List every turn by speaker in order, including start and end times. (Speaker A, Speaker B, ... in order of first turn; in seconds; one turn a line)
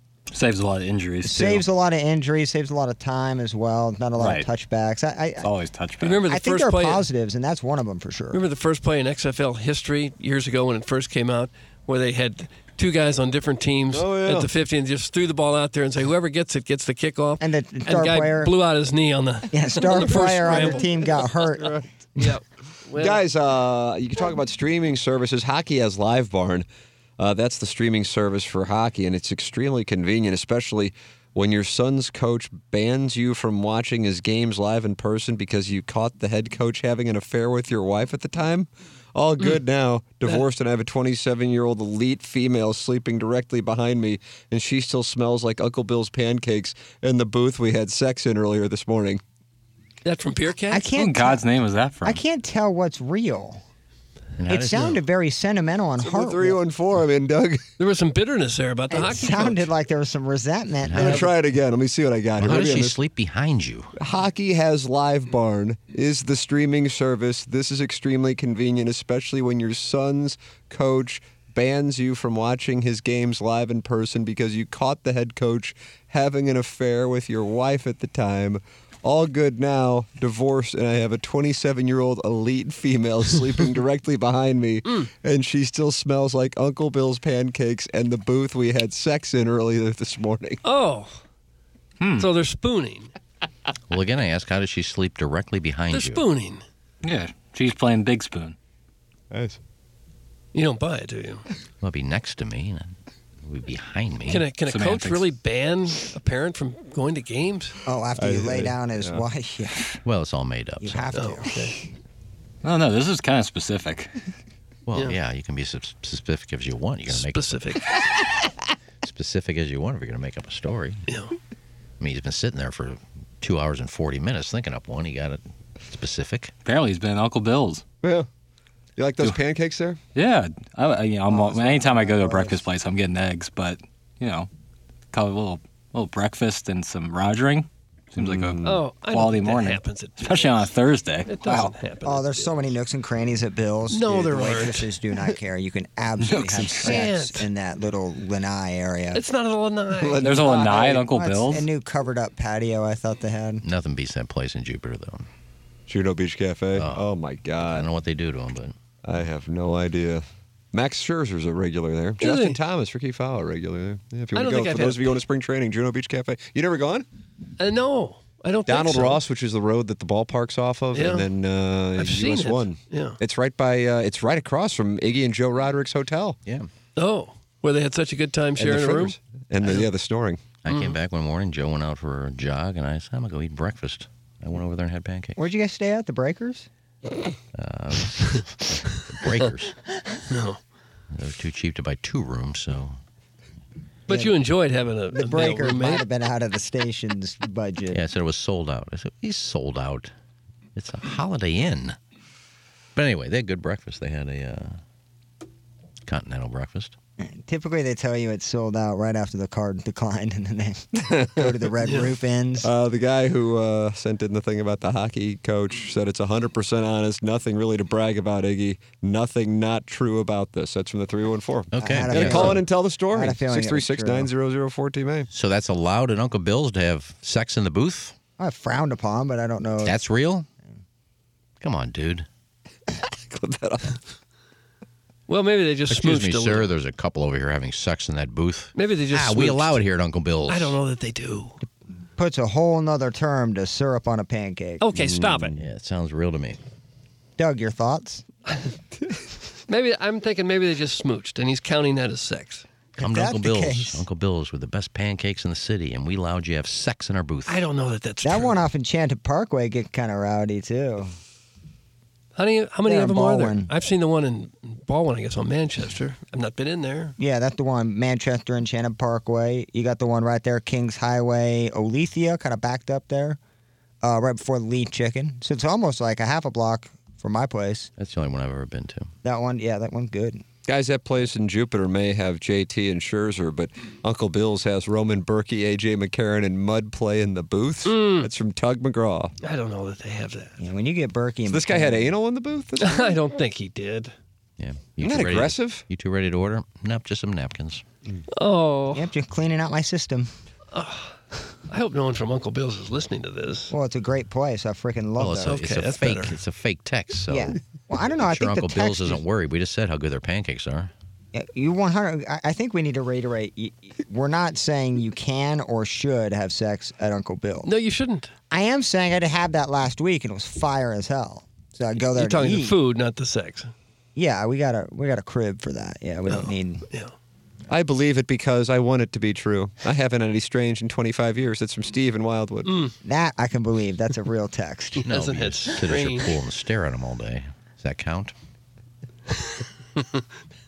Speaker A: 0.3-1.7
Speaker B: 1.2-5.5
Speaker A: 4.2-4.5
Speaker A: 5.4-6.2
Speaker C: 6.0-7.0
Speaker B: 6.2-8.4
Speaker C: 8.3-21.2
Speaker D: 13.9-14.5
Speaker B: 17.4-18.5
Speaker B: 19.5-21.8
Speaker D: 20.4-20.8
Speaker C: 22.2-23.2
Speaker D: 22.9-26.7
Speaker D: 27.2-49.2
Speaker C: 50.0-50.9
Speaker B: 50.7-51.5
Speaker A: 50.9-52.2
Speaker B: 52.0-53.6
Speaker E: 54.4-55.0
Speaker B: 54.5-56.6
Speaker D: 56.0-57.6
Speaker C: 57.8-59.7
Speaker B: 58.9-61.3
Speaker E: 60.8-61.2
Speaker D: 61.0-63.0
Speaker E: 62.4-63.9
Speaker D: 64.0-90.6
Speaker C: 90.6-91.2
Speaker A: 92.0-92.3
Speaker C: 92.2-93.1
Speaker E: 93.9-96.2
Speaker C: 95.9-96.6
Speaker A: 97.0-98.6
Speaker D: 99.3-99.6
Speaker C: 100.5-101.4
Speaker E: 101.8-102.9
Speaker E: 103.5-104.5
Speaker C: 104.3-107.8
Speaker A: 104.6-105.3
Speaker B: 107.9-110.0
Speaker D: 108.2-109.2
Speaker E: 110.0-111.1
Speaker B: 110.8-111.5
Speaker C: 111.1-111.8
Speaker A: 112.6-114.1
Speaker E: 114.9-117.8
Speaker C: 117.1-117.9
Speaker E: 119.0-121.0
Speaker C: 121.1-121.3
Speaker E: 122.0-126.5
Speaker A: 126.6-127.8
Speaker D: 128.0-128.3
Speaker D: 129.0-130.0
Speaker A: 130.2-134.5
Speaker B: 131.3-132.6
Speaker A: 135.1-141.8
Speaker D: 138.2-138.8
Speaker C: 138.6-140.6
Speaker C: 141.3-142.6
Speaker B: 142.0-149.2
Speaker C: 143.9-144.9
Speaker A: 146.2-147.0
Speaker C: 146.7-147.5
Speaker C: 149.1-150.3
Speaker D: 149.9-151.1
Speaker A: 150.2-151.7
Speaker B: 150.8-153.6
Speaker E: 153.6-155.3
Speaker D: 155.9-157.9
Speaker E: 156.8-157.1
Speaker E: 157.6-158.8
Speaker D: 159.0-167.1
Speaker C: 162.2-162.6
Speaker C: 164.3-165.2
Speaker C: 167.6-169.2
Speaker D: 168.7-176.4
Speaker C: 170.9-171.3
Speaker C: 172.0-173.2
Speaker C: 177.0-179.9
Speaker D: 178.6-180.4
Speaker E: 180.6-185.4
Speaker C: 180.7-180.9
Speaker B: 185.4-186.7
Speaker E: 187.5-189.8
Speaker C: 190.3-190.6
Speaker E: 191.1-193.0
Speaker C: 194.1-196.0
Speaker B: 195.1-198.0
Speaker E: 197.9-200.1
Speaker E: 200.8-202.0
Speaker E: 202.9-204.8
Speaker E: 206.1-206.9
Speaker B: 207.2-212.7
Speaker D: 211.0-211.5
Speaker D: 212.6-225.3
Speaker E: 221.7-222.6
Speaker B: 221.8-224.3
Speaker E: 225.3-228.2
Speaker B: 228.4-230.0
Speaker E: 229.8-230.5
Speaker E: 231.6-232.3
Speaker D: 233.0-234.0
Speaker C: 235.3-236.7
Speaker E: 235.9-240.8
Speaker C: 238.8-239.8
Speaker C: 240.5-241.6
Speaker B: 242.2-244.9
Speaker C: 244.8-245.6
Speaker E: 245.5-246.6
Speaker B: 247.4-248.2
Speaker C: 249.7-252.7
Speaker B: 253.0-254.1
Speaker E: 253.0-257.6
Speaker C: 257.5-258.6
Speaker B: 258.2-261.1
Speaker C: 262.4-267.2
Speaker B: 262.9-263.7
Speaker B: 267.2-273.4
Speaker B: 274.0-277.9
Speaker E: 278.0-279.1
Speaker B: 279.2-280.4
Speaker D: 280.7-289.4
Speaker C: 287.9-288.3
Speaker C: 289.4-290.6
Speaker B: 290.6-292.2
Speaker D: 291.5-293.1
Speaker C: 292.8-294.1
Speaker E: 294.6-297.8
Speaker D: 295.0-295.8
Speaker C: 298.3-299.1
Speaker B: 298.9-300.3
Speaker C: 300.7-301.1
Speaker C: 301.7-303.7
Speaker B: 303.7-305.6
Speaker E: 305.2-307.6
Speaker C: 305.4-306.4
Speaker B: 307.3-309.2
Speaker E: 308.2-310.9
Speaker B: 311.3-317.7
Speaker C: 317.6-318.3
Speaker B: 318.5-322.8
Speaker C: 322.1-323.7
Speaker B: 324.1-326.9
Speaker C: 326.3-327.1
Speaker D: 327.7-332.7
Speaker C: 332.7-332.9
Speaker B: 333.1-335.1
Speaker C: 335.0-336.4
Speaker E: 335.1-338.3
Speaker C: 340.0-340.2